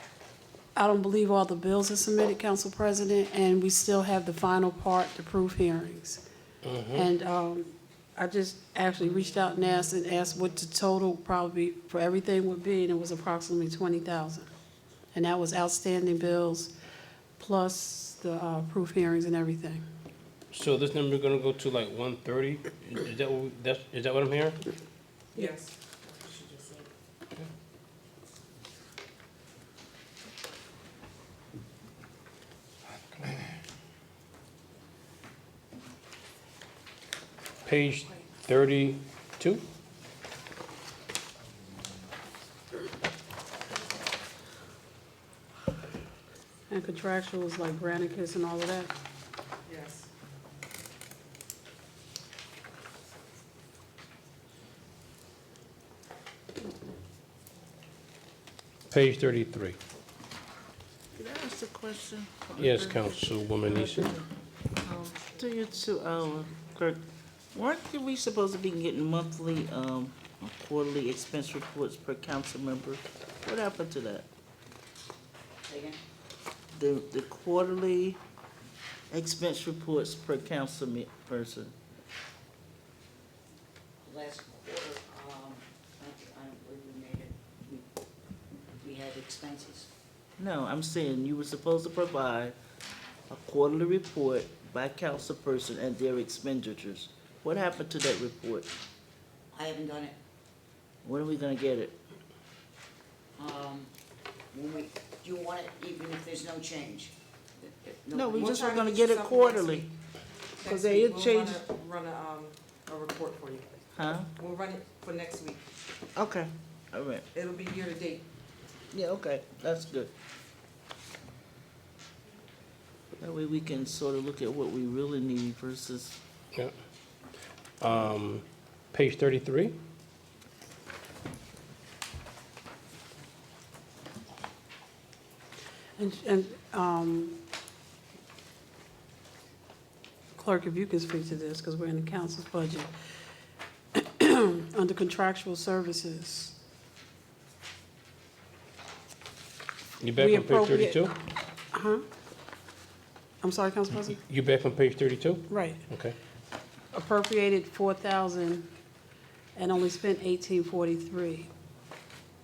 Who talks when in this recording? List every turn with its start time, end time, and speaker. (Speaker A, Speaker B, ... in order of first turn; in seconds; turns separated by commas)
Speaker A: 0.8-6.2, Speaker B: 6.6-7.1, Speaker A: 6.9-14.5, Speaker A: 15.1-16.7, Speaker A: 17.4-19.8, Speaker B: 20.5-24.6, Speaker C: 25.4-26.9, Speaker B: 37.7-39.6, Speaker A: 46.7-48.9, Speaker C: 49.7-50.1, Speaker B: 58.9-59.8, Speaker D: 61.1-63.4, Speaker B: 62.6-64.2, Speaker C: 63.8-64.1, Speaker C: 64.8-65.2, Speaker D: 65.2-67.0, Speaker D: 67.5-74.3, Speaker E: 75.7-76.0, Speaker D: 76.7-78.2, Speaker D: 79.1-81.7, Speaker E: 84.1-87.8, Speaker E: 88.8-89.9, Speaker D: 90.4-92.6, Speaker D: 93.3-98.7, Speaker E: 99.5-100.2, Speaker D: 101.0-102.0, Speaker E: 103.4-103.9, Speaker E: 104.5-108.5, Speaker D: 108.1-109.9, Speaker C: 108.3-109.9, Speaker C: 110.6-113.7, Speaker D: 110.7-111.6, Speaker D: 114.0-114.3, Speaker C: 114.3-115.6, Speaker D: 116.2-117.2, Speaker C: 117.3-118.2, Speaker D: 118.9-120.1, Speaker D: 123.2-126.2, Speaker B: 127.8-129.8, Speaker A: 136.0-137.4, Speaker A: 140.3-142.9, Speaker A: 143.9-146.6, Speaker B: 150.0-151.2, Speaker A: 150.2-152.1, Speaker A: 153.4-154.2, Speaker B: 154.2-156.2, Speaker A: 155.5-155.8, Speaker A: 156.9-158.7, Speaker A: 159.6-161.5